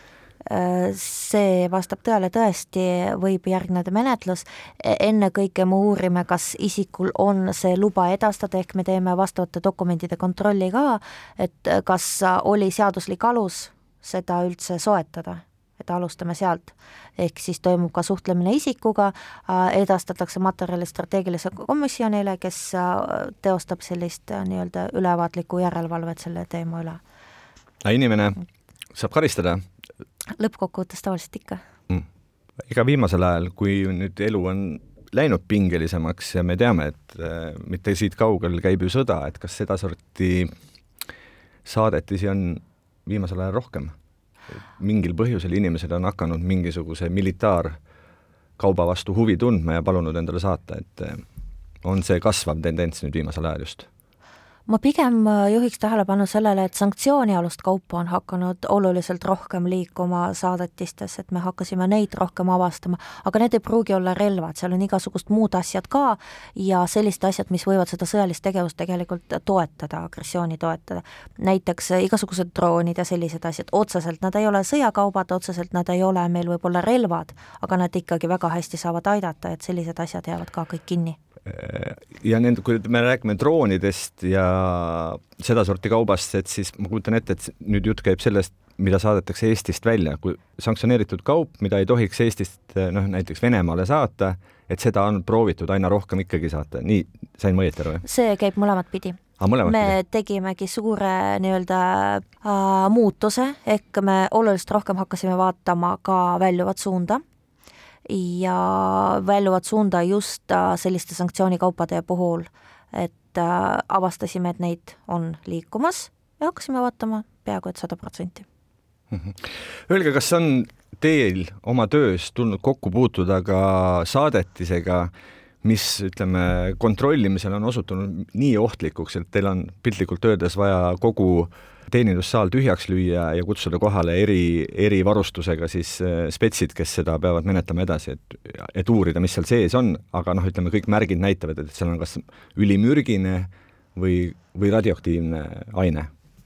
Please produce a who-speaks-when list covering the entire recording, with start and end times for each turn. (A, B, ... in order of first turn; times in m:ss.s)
0:00.5-0:27.0 A
0:27.8-0:28.4 B
0:28.9-0:29.6 B
0:30.4-0:31.6 A
0:32.6-0:40.5 B
0:41.6-0:43.9 B
0:44.8-0:47.8 B
0:48.6-0:51.2 B
0:51.8-0:53.9 B
0:54.7-1:21.2 A
1:21.5-1:38.0 B
1:38.0-1:47.2 A
1:39.4-1:40.0 B
1:48.1-1:58.5 A
1:59.1-2:05.1 B
2:05.6-2:26.1 B